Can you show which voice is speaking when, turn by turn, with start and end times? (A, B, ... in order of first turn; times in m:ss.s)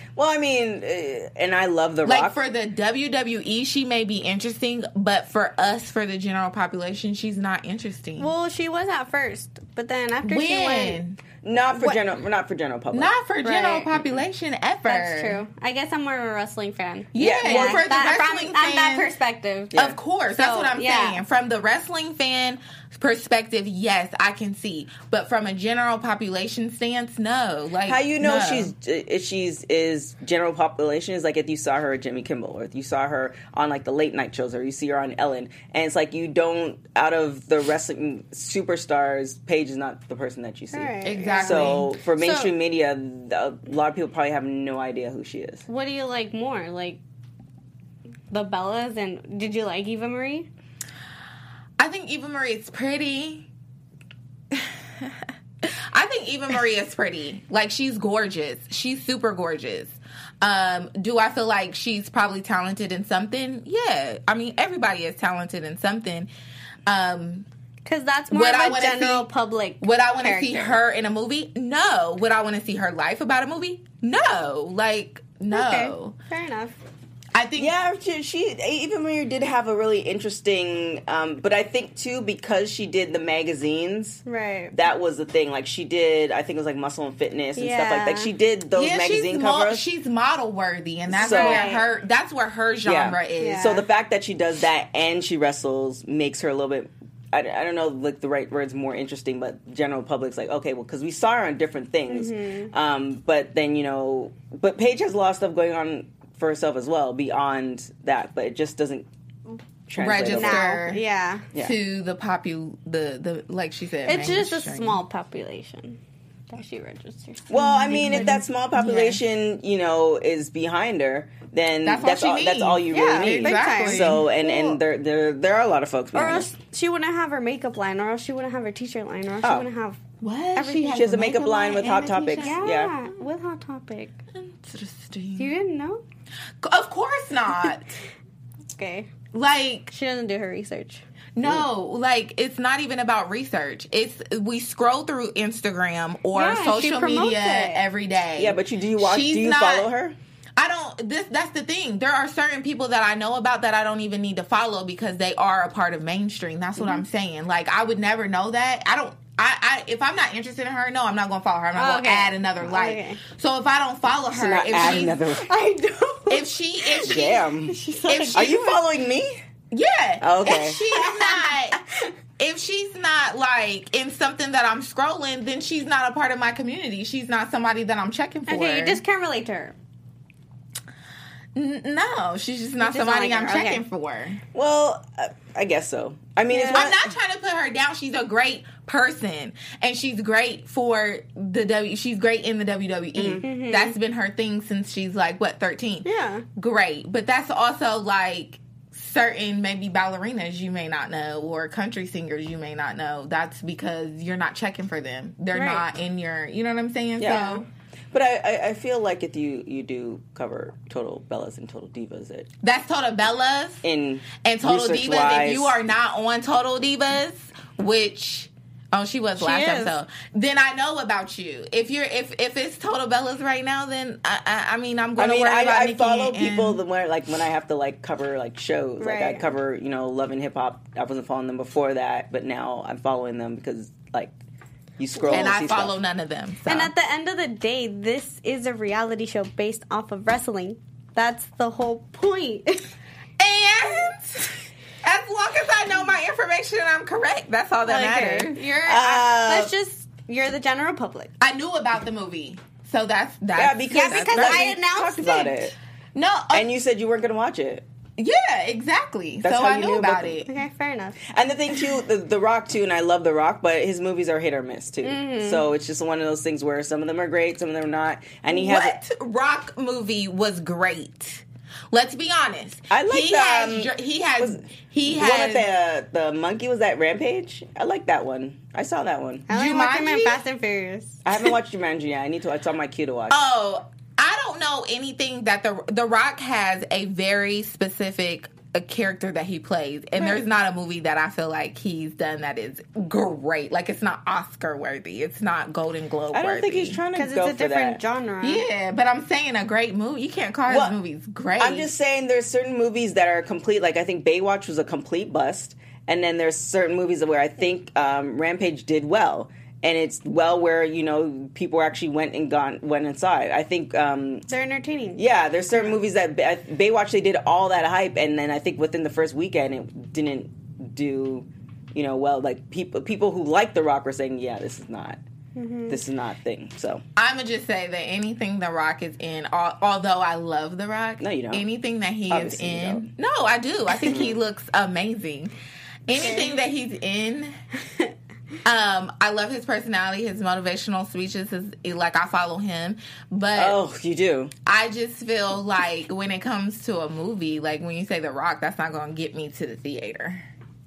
0:00.2-0:02.4 A
0:02.0-0:08.3 B
0:08.2-0:11.0 C
0:10.2-0:11.2 B
0:11.4-0:13.1 A
0:12.9-0:15.4 B
0:13.4-0:13.9 C
0:14.8-0:19.7 C
0:17.1-0:19.1 B
0:17.2-0:17.8 A
0:19.7-0:28.7 B
0:20.4-0:21.2 C
0:27.8-0:45.6 A
0:40.7-0:42.5 C
0:41.0-0:41.9 B
0:45.7-0:47.0 C
0:48.3-0:50.5 C
0:51.8-0:53.4 B
0:54.5-1:06.3 B
1:06.8-1:07.4 B
1:07.8-1:10.8 C
1:08.3-1:09.3 B
1:09.8-1:16.1 B
1:15.5-1:16.8 C
1:17.3-1:17.7 B
1:17.6-1:29.8 A
1:24.2-1:24.7 C
1:27.6-1:28.3 C
1:28.7-1:33.8 B
1:31.1-1:31.7 A
1:31.1-1:31.9 C
1:32.8-1:49.1 A
1:33.4-1:33.8 C
1:42.1-1:42.7 C
1:49.9-1:50.6 A
1:50.0-1:51.0 B
1:50.3-1:51.4 C
1:51.6-1:55.0 B
1:54.0-1:56.0 C
1:56.5-1:58.4 C
1:57.5-2:06.5 A
1:57.5-1:59.2 B
2:01.8-2:04.3 B
2:02.9-2:04.8 C
2:06.1-2:10.0 C
2:10.2-2:12.8 B
2:10.5-2:11.3 C
2:10.9-2:12.9 A
2:12.4-2:14.2 C
2:14.4-2:15.5 B
2:15.4-2:16.0 C
2:16.6-2:17.9 B
2:18.8-2:19.1 C
2:19.3-2:19.9 B
2:19.9-2:21.0 C
2:21.4-2:29.9 B
2:26.3-2:27.8 C
2:28.4-2:30.2 A
2:30.6-2:45.2 B
2:41.8-2:43.2 C
2:44.3-2:45.5 A
2:45.4-2:48.7 C
2:46.3-2:47.4 B
2:47.0-2:47.8 A
2:48.0-2:48.7 B
2:48.3-2:49.4 A
2:49.7-2:51.8 B
2:50.2-2:50.8 A
2:50.9-2:51.5 C
2:52.4-2:59.0 B
2:58.5-2:59.7 C
3:01.5-3:04.4 B
3:02.8-3:03.8 C
3:04.5-3:07.1 A
3:06.5-3:06.9 C
3:06.7-3:27.6 B
3:13.2-3:13.4 A
3:13.3-3:14.0 C
3:16.0-3:16.4 C
3:25.5-3:25.8 C
3:27.2-3:27.6 A
3:27.3-3:27.6 C
3:28.1-3:32.5 A
3:32.6-3:33.8 B
3:33.8-3:35.8 A
3:34.4-3:46.8 B
3:39.4-3:39.9 C
3:45.2-3:54.3 A
3:49.0-3:49.5 C
3:55.0-3:55.9 A
3:55.2-3:55.5 C
3:55.3-3:56.9 B
3:56.6-4:02.9 C
4:03.4-4:08.7 B
4:07.8-4:11.3 C
4:08.8-4:09.7 A
4:11.4-4:14.8 B
4:13.5-4:15.7 A
4:13.9-4:15.5 C
4:16.1-4:16.7 B
4:16.5-4:17.8 A
4:18.2-4:20.5 B
4:19.4-4:20.4 A
4:20.4-4:21.2 C
4:21.2-4:29.0 A
4:25.0-4:25.6 C
4:28.5-4:35.7 B
4:32.9-4:39.5 A
4:39.5-4:40.4 B
4:39.5-4:41.2 C
4:41.2-4:43.4 A
4:43.3-4:57.0 B
4:56.3-4:58.0 A
4:57.1-4:58.6 C
4:58.4-5:01.9 B
5:00.7-5:00.9 A
5:01.6-5:14.4 A
5:14.5-5:15.2 C
5:15.2-5:25.2 A
5:25.5-5:26.0 C
5:25.9-5:27.0 A
5:27.2-5:35.5 B
5:31.2-5:31.6 A
5:32.3-5:33.1 A
5:34.0-5:34.4 A
5:36.1-5:37.5 B
5:36.1-5:36.6 C
5:38.6-5:43.8 B
5:43.5-5:44.5 A
5:44.6-5:50.4 B